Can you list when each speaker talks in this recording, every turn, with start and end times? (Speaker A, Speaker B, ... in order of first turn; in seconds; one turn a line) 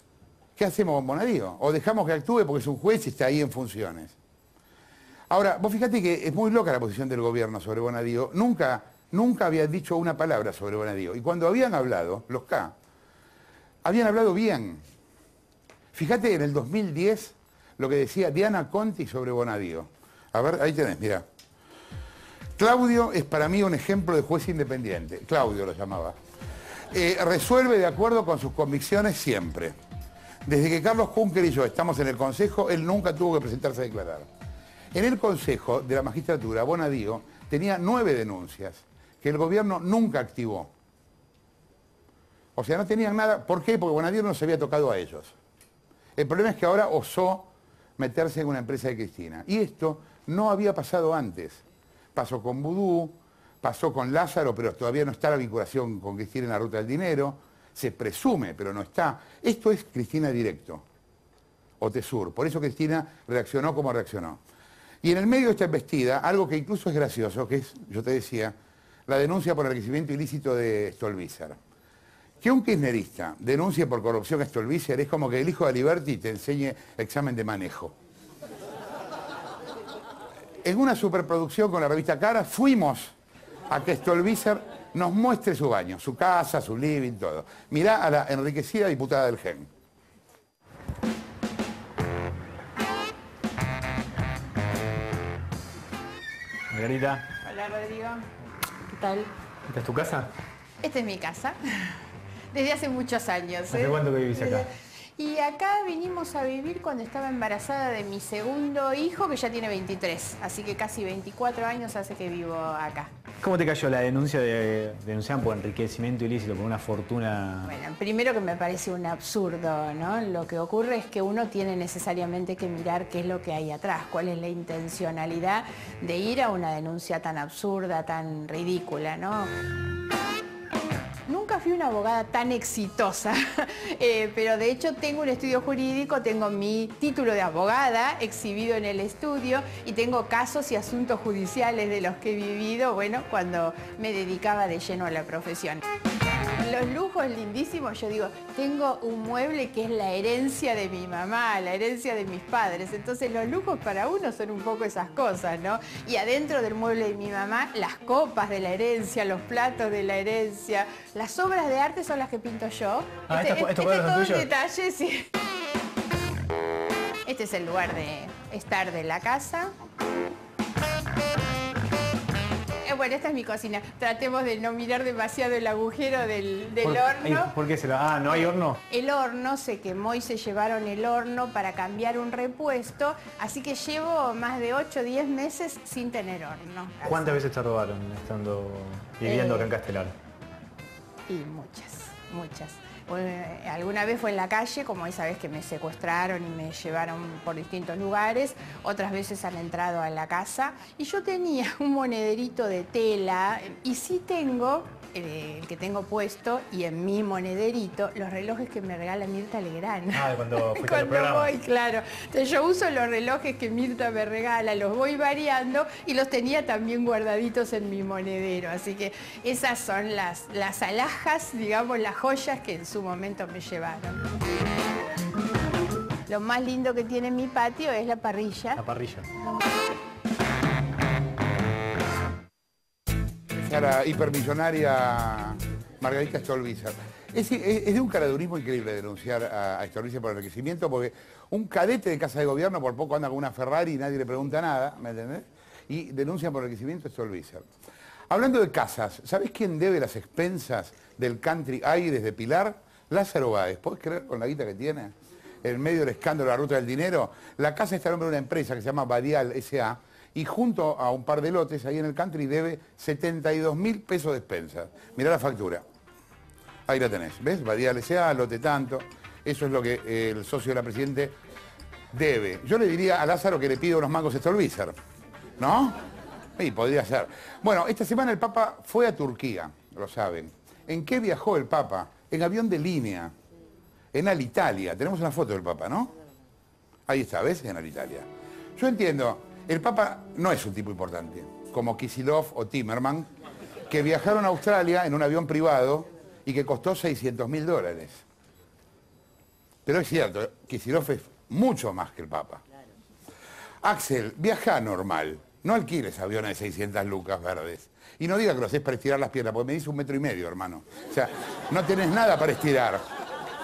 Speaker A: 0.6-4.2
Speaker A: 5.3-12.7
Speaker A: 13.8-14.8
Speaker A: 15.9-21.2
Speaker A: 22.6-26.2
Speaker A: 26.9-29.8
Speaker A: 30.5-34.3
Speaker A: 34.9-40.7
Speaker A: 42.6-45.4
Speaker A: 46.2-51.6
Speaker A: 52.1-60.8
Speaker A: 61.8-64.4
Speaker A: 65.0-68.5
Speaker A: 69.1-71.6
Speaker A: 72.4-77.9
Speaker A: 80.6-83.1
Speaker A: 83.7-89.7
Speaker B: 96.7-97.3
Speaker C: 97.4-98.2
Speaker C: 98.9-99.3
Speaker B: 99.7-100.3
Speaker C: 100.8-101.6
Speaker C: 102.5-113.1
Speaker B: 103.7-104.7
Speaker B: 113.4-117.8
Speaker C: 117.7-129.5
Speaker C: 131.3-145.8
Speaker C: 146.6-165.3
Speaker B: 163.3-164.5
Speaker C: 167.3-169.7
Speaker C: 172.8-177.5
Speaker B: 176.8-178.8
Speaker C: 178.3-187.3
Speaker B: 187.0-190.1
Speaker C: 189.2-189.7
Speaker C: 191.3-224.2
Speaker B: 210.1-211.5
Speaker C: 226.3-228.8
Speaker B: 228.8-229.3
Speaker A: 233.6-247.7
Speaker A: 248.3-255.1
Speaker A: 255.6-265.8
Speaker A: 266.9-271.4
Speaker A: 272.1-274.9
Speaker A: 275.6-276.0
Speaker A: 276.6-283.3
Speaker A: 284.1-286.1
Speaker A: 287.1-293.3
Speaker A: 293.9-298.2
Speaker A: 299.9-302.6
Speaker A: 303.8-313.0